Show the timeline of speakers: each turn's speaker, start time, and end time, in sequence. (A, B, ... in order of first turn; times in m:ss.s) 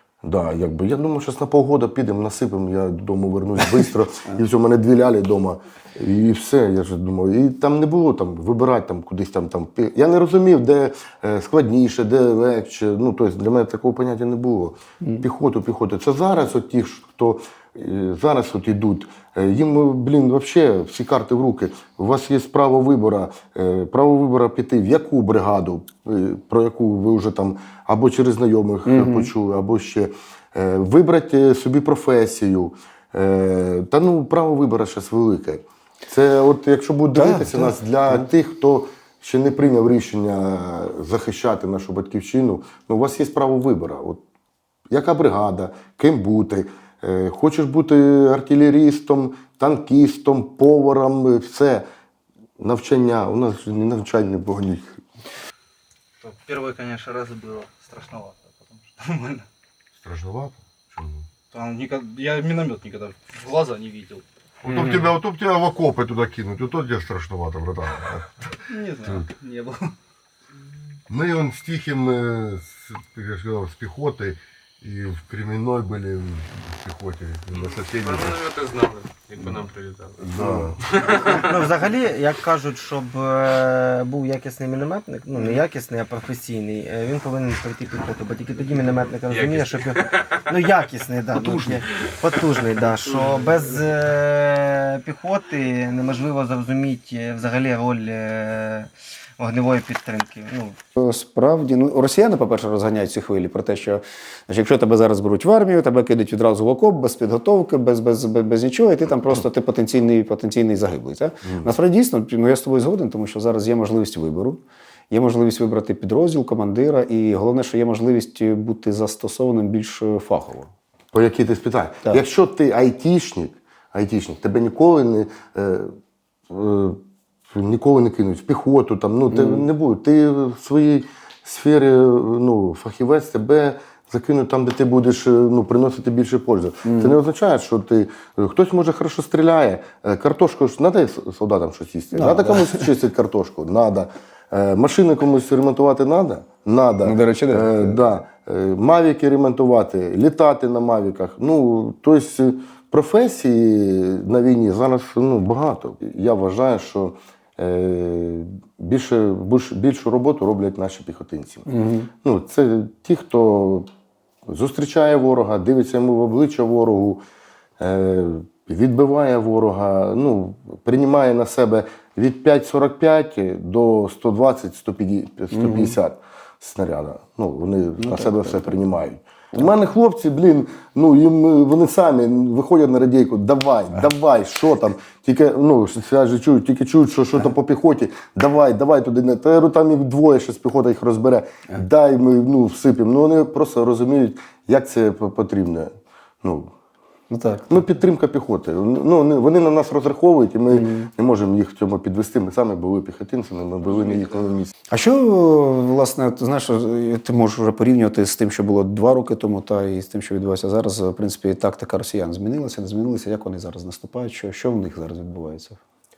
0:00.2-0:44.2 A
0:28.9-0:29.3 B
0:37.1-0:38.3 B
0:44.9-0:51.9 A
0:52.6-0:55.0 A
0:56.2-0:59.5 C
1:00.0-1:01.3 A
1:01.5-1:04.2 C
1:04.6-1:09.2 A
1:08.7-1:09.9 C
1:11.1-1:18.5 A
1:18.0-1:20.3 D
1:19.4-1:19.7 A
1:20.2-1:20.8 A
1:20.4-1:40.8 E
1:29.3-1:30.3 D
1:31.4-1:31.8 D
1:41.0-2:00.7 B
1:51.4-1:51.7 A
2:01.1-2:05.9 A
2:06.5-2:41.7 A
2:09.3-2:09.7 B
2:16.8-2:17.2 B
2:22.1-2:22.9 B
2:27.0-2:28.0 B
2:41.7-2:42.1 B
2:42.2-2:43.9 A
2:44.5-2:47.2 A
2:47.8-3:15.9 A
2:55.5-2:56.0 B
2:58.0-2:58.9 B
3:16.4-3:16.7 A
3:17.3-3:17.8 B
3:17.7-3:24.7 A
3:20.7-3:21.1 B
3:24.9-3:35.8 B